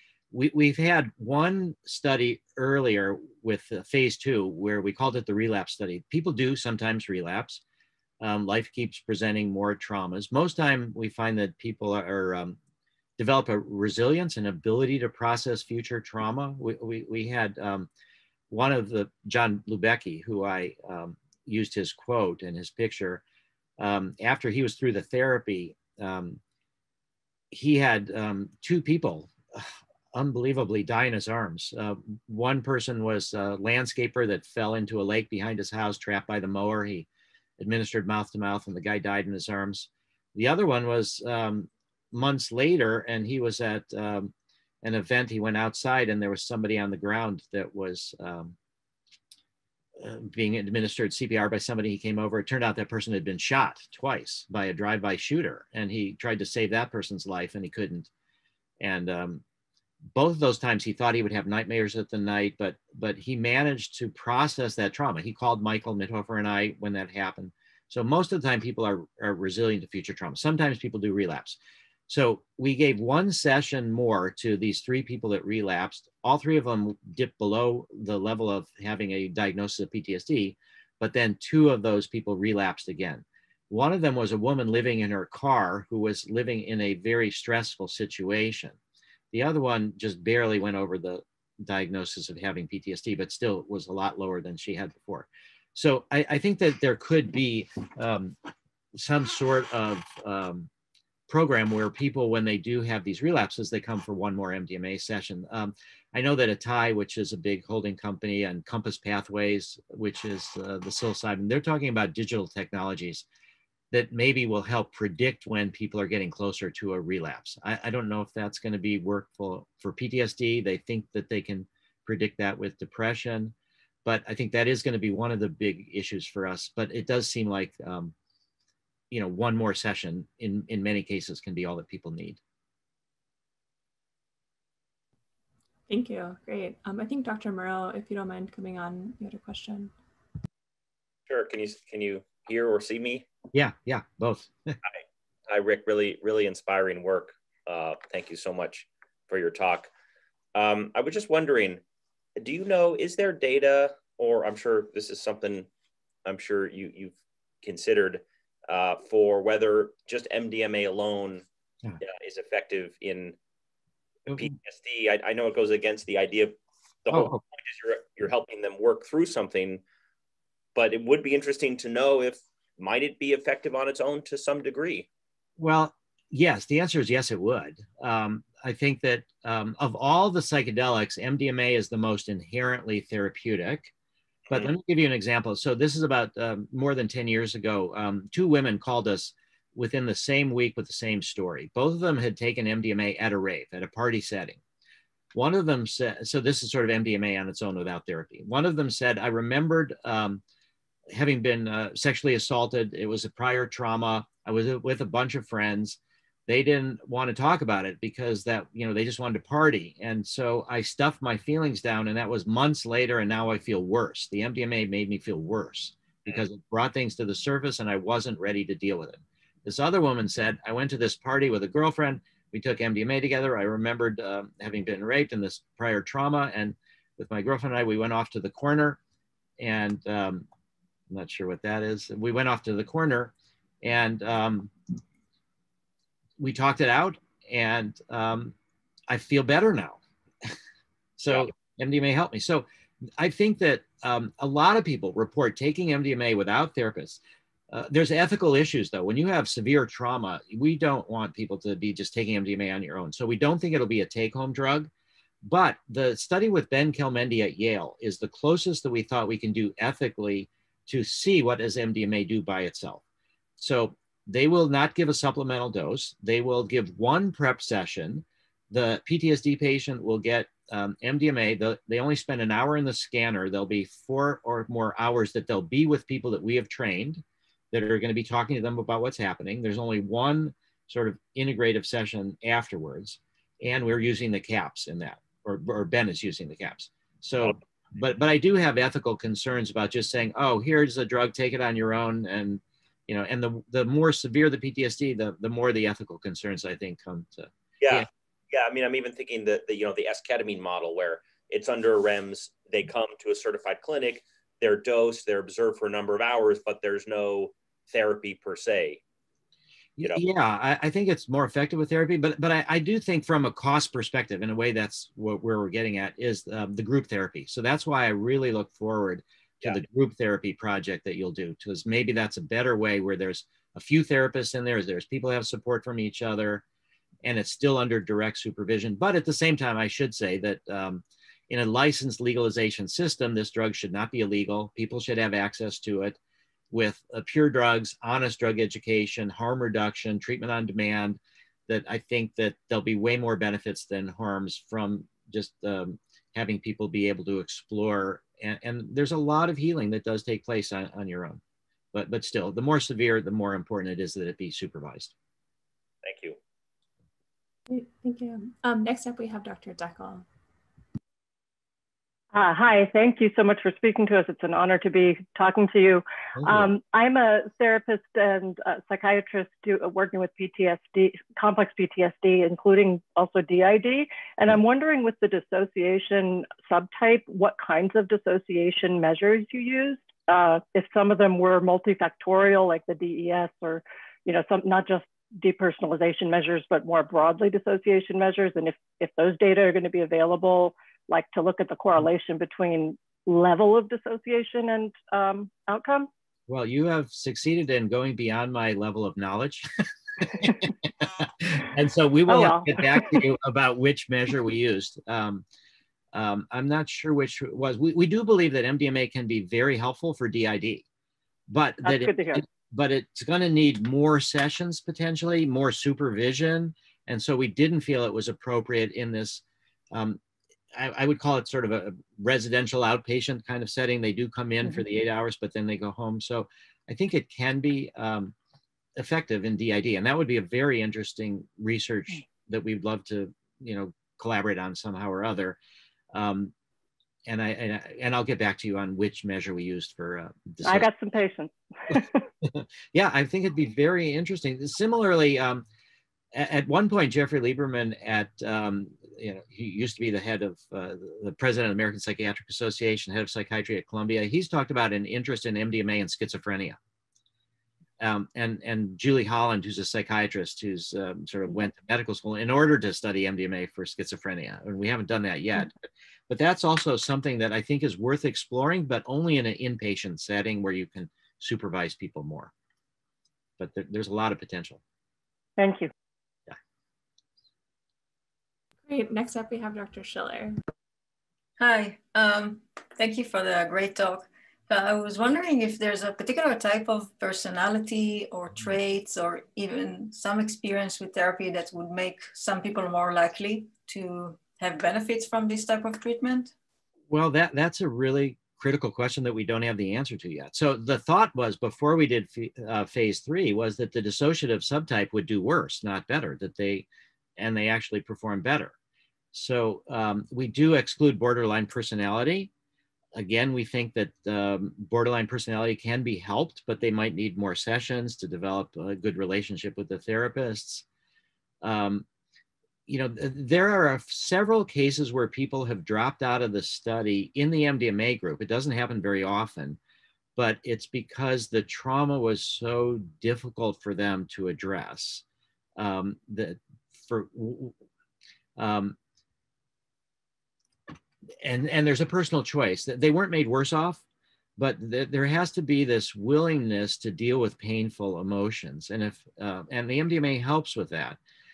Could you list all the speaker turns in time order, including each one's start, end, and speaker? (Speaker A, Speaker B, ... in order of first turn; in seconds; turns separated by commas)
Speaker A: 0.3-7.6, Speaker A: 8.2-12.6, Speaker A: 13.2-17.9, Speaker A: 18.5-23.2, Speaker A: 23.8-26.4, Speaker A: 27.5-37.1, Speaker A: 37.6-48.5, Speaker A: 50.0-58.1, Speaker A: 58.8-59.4, Speaker A: 60.1-88.8, Speaker A: 89.3-98.3, Speaker A: 98.9-100.7, Speaker A: 101.3-113.2, Speaker A: 113.9-123.5, Speaker A: 124.0-128.1, Speaker A: 129.1-132.4, Speaker B: 135.9-139.9, Speaker C: 141.3-143.3, Speaker A: 143.5-144.8, Speaker C: 145.5-149.9, Speaker C: 150.5-151.8, Speaker C: 152.4-155.7, Speaker C: 156.2-161.4, Speaker C: 162.0-163.4, Speaker C: 164.3-169.8, Speaker A: 167.1-167.4, Speaker C: 170.7-175.1, Speaker A: 175.6-183.9, Speaker A: 184.5-194.6, Speaker A: 195.3-200.4, Speaker A: 201.1-229.0, Speaker A: 229.6-230.4, Speaker A: 231.1-234.7, Speaker A: 236.4-238.5, Speaker A: 239.1-240.5, Speaker A: 241.2-242.7, Speaker A: 243.2-247.2, Speaker A: 247.7-254.9, Speaker A: 255.4-263.0, Speaker A: 263.6-298.1, Speaker C: 297.8-309.0, Speaker A: 310.0-326.6, Speaker A: 327.2-336.2, Speaker A: 336.7-351.4, Speaker A: 351.9-355.1, Speaker C: 356.0-356.4, Speaker B: 357.7-360.2, Speaker D: 362.3-396.1, Speaker A: 366.4-366.7, Speaker A: 396.5-399.7, Speaker A: 400.2-405.4, Speaker D: 402.3-403.2, Speaker A: 406.1-410.8, Speaker A: 411.5-420.2, Speaker D: 411.8-412.4, Speaker A: 420.7-428.3, Speaker A: 429.0-435.6, Speaker A: 436.1-436.5, Speaker A: 437.3-440.9, Speaker D: 440.6-442.2, Speaker A: 442.4-445.6, Speaker A: 446.3-456.8, Speaker A: 458.0-465.7, Speaker A: 466.3-472.5, Speaker A: 473.6-474.8, Speaker D: 475.6-475.9, Speaker B: 478.9-480.6, Speaker E: 481.6-496.5, Speaker A: 497.1-506.9, Speaker A: 507.4-508.7, Speaker A: 509.3-512.5, Speaker A: 513.1-520.8, Speaker A: 521.6-522.0, Speaker A: 522.9-529.8, Speaker A: 530.4-535.2, Speaker A: 535.8-537.7, Speaker A: 538.6-539.0, Speaker A: 541.4-544.0, Speaker A: 544.6-551.2